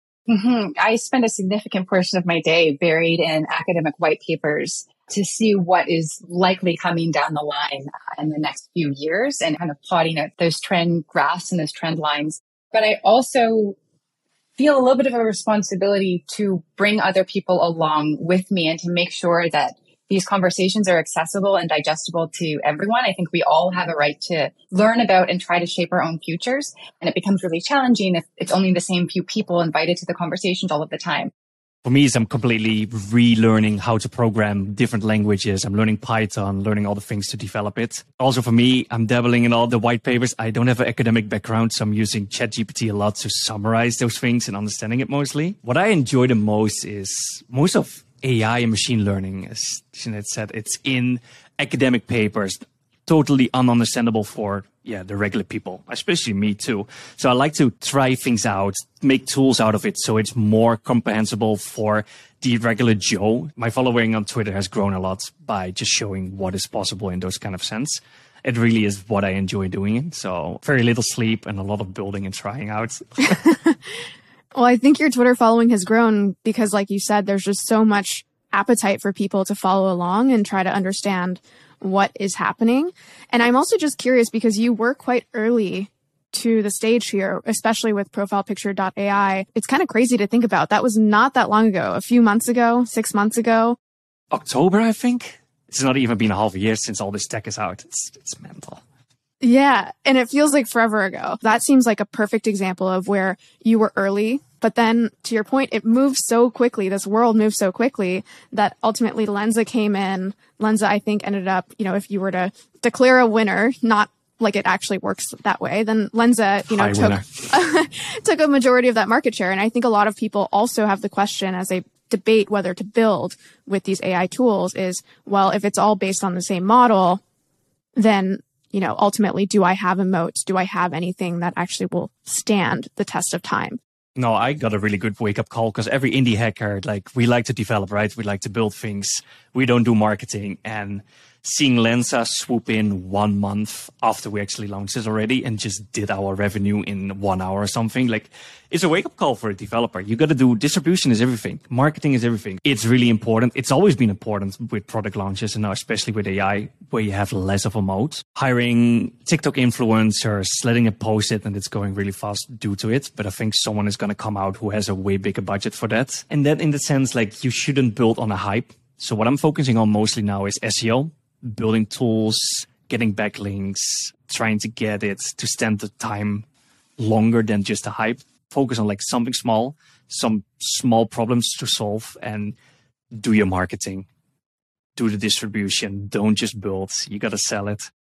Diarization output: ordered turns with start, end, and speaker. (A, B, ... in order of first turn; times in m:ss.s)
0:00.3-0:13.8 A
0:14.6-0:31.3 A
0:31.8-1:13.4 B
1:13.3-1:13.8 C
1:14.5-1:33.8 C
1:34.3-1:38.8 B
1:39.4-2:07.2 C
1:56.7-1:57.5 B
2:08.0-2:13.8 C
2:14.2-2:56.5 B
2:57.0-3:02.6 B
3:03.1-3:04.1 B
3:05.0-3:07.9 B